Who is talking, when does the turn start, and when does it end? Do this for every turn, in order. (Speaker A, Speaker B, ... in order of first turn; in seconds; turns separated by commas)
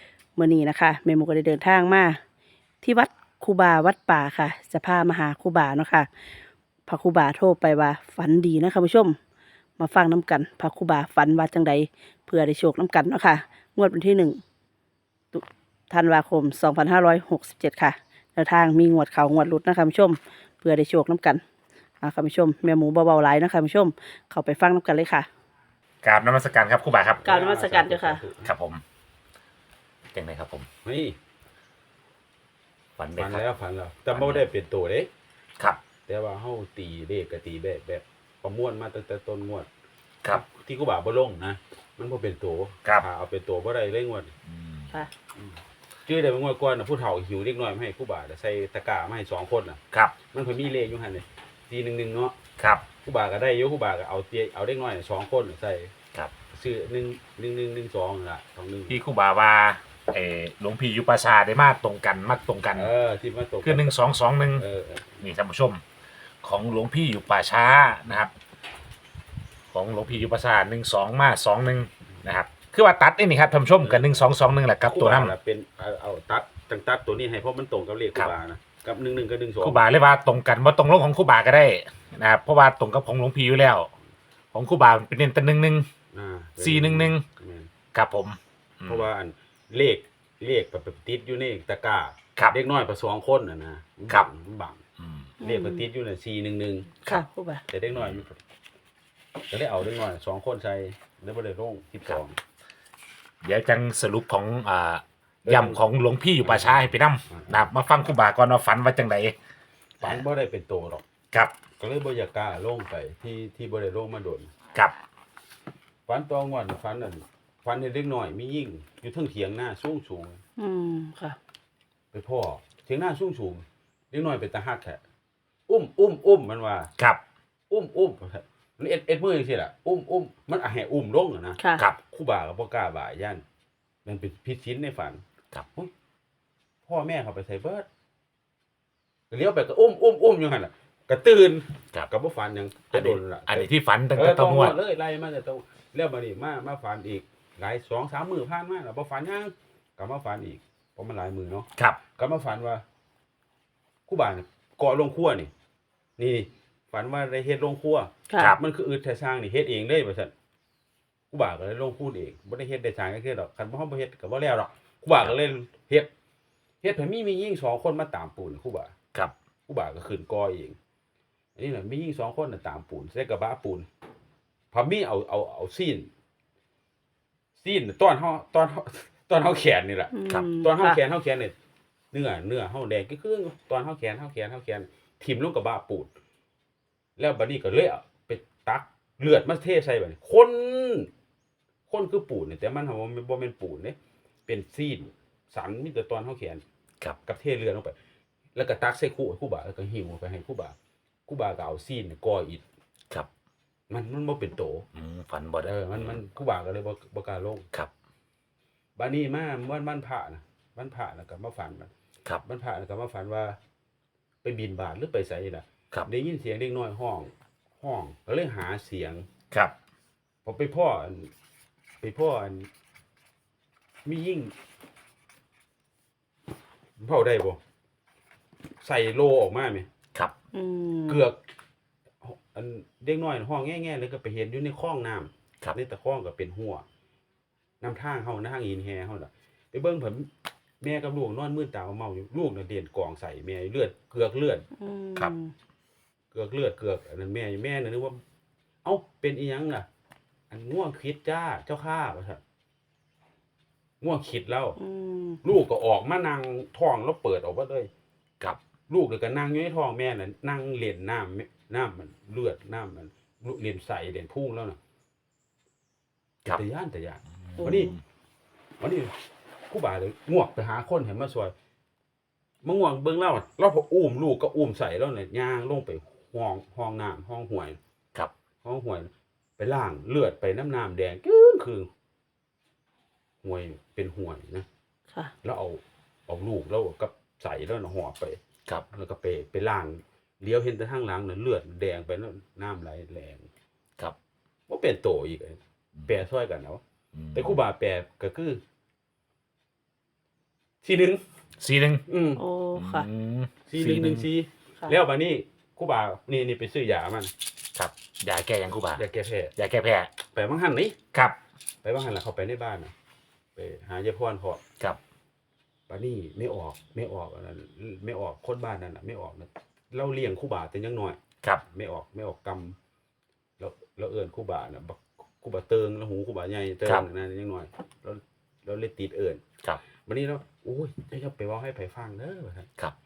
Speaker A: 0.3-2.2, Speaker A: 2.8-6.1, Speaker A: 6.9-9.2, Speaker A: 9.8-14.4, Speaker A: 15.3-21.4, Speaker A: 22.0-25.3, Speaker B: 26.0-27.2, Speaker C: 27.2-28.5, Speaker A: 27.2-28.2, Speaker B: 28.4-28.8, Speaker B: 30.1-30.7, Speaker C: 30.8-31.1, Speaker B: 33.0-33.4, Speaker C: 33.1-35.1, Speaker B: 34.1-34.5, Speaker C: 36.1-39.7, Speaker C: 40.3-44.3, Speaker B: 44.5-44.9, Speaker C: 45.4-52.4, Speaker B: 52.6-52.8, Speaker C: 53.0-55.9, Speaker C: 56.5-59.0, Speaker B: 58.9-62.9, Speaker C: 62.7-64.0, Speaker B: 63.6-64.6, Speaker C: 64.5-65.2, Speaker B: 65.2-65.8, Speaker B: 66.4-68.3, Speaker B: 69.7-75.3, Speaker C: 73.8-79.8, Speaker B: 79.6-83.9, Speaker B: 84.5-85.8, Speaker C: 86.1-87.7, Speaker B: 86.6-87.2, Speaker B: 87.9-89.0, Speaker C: 88.8-94.8, Speaker B: 95.0-95.3, Speaker A: 95.4-95.8, Speaker C: 95.4-97.0, Speaker A: 97.0-97.6, Speaker C: 97.7-98.4, Speaker B: 97.9-98.2, Speaker C: 99.5-102.4, Speaker B: 103.4-109.3, Speaker C: 105.4-105.8, Speaker C: 106.4-107.7, Speaker C: 110.0-111.0, Speaker C: 111.8-114.5, Speaker C: 116.1-120.4, Speaker A: 120.6-121.4, Speaker C: 122.1-125.0, Speaker C: 125.7-126.9, Speaker C: 127.7-133.4, Speaker A: 131.6-131.8, Speaker C: 134.0-135.2, Speaker C: 136.8-137.8, Speaker C: 139.3-152.8, Speaker B: 142.9-144.8, Speaker C: 154.1-155.5, Speaker C: 156.2-160.3, Speaker A: 158.3-158.6, Speaker C: 161.3-166.1, Speaker C: 166.8-168.9, Speaker C: 169.7-170.8, Speaker C: 171.6-173.9, Speaker C: 174.7-176.1, Speaker C: 177.6-181.5, Speaker A: 180.1-181.0, Speaker C: 182.1-186.1, Speaker C: 187.2-191.1, Speaker C: 191.9-193.9, Speaker C: 194.5-196.6, Speaker C: 197.2-197.9, Speaker C: 198.5-200.7, Speaker C: 201.3-202.6, Speaker C: 203.9-204.8, Speaker B: 204.9-206.2, Speaker C: 205.6-207.7, Speaker C: 209.0-211.9, Speaker C: 212.4-213.6, Speaker C: 214.4-219.3, Speaker C: 220.4-221.3, Speaker C: 222.0-222.7, Speaker C: 224.0-224.5, Speaker C: 227.0-227.6, Speaker C: 228.8-229.9, Speaker A: 230.5-231.2, Speaker C: 231.1-231.4, Speaker C: 232.2-236.8, Speaker C: 237.8-240.3, Speaker C: 240.8-244.7, Speaker A: 244.8-245.5, Speaker C: 246.3-248.2, Speaker C: 248.8-249.8, Speaker C: 250.5-252.4, Speaker C: 254.0-254.8, Speaker A: 254.8-255.4, Speaker C: 255.4-257.9, Speaker C: 258.9-264.8, Speaker C: 266.5-267.9, Speaker B: 267.5-267.9, Speaker A: 267.6-267.9, Speaker C: 268.8-269.1, Speaker C: 269.7-271.5, Speaker C: 272.6-277.8, Speaker C: 278.6-281.9, Speaker C: 283.4-284.6, Speaker C: 285.4-293.5, Speaker C: 294.7-296.8, Speaker B: 297.1-297.6, Speaker C: 297.3-298.6, Speaker C: 300.8-301.2, Speaker B: 301.6-302.0, Speaker C: 302.1-302.4, Speaker A: 302.3-303.1, Speaker B: 302.7-304.2, Speaker C: 303.7-307.3, Speaker B: 307.7-309.0, Speaker C: 308.9-309.5, Speaker B: 309.6-310.1, Speaker C: 310.3-311.0, Speaker C: 311.8-312.9, Speaker C: 313.6-314.6, Speaker C: 315.9-322.8, Speaker C: 323.6-329.4, Speaker C: 330.1-332.7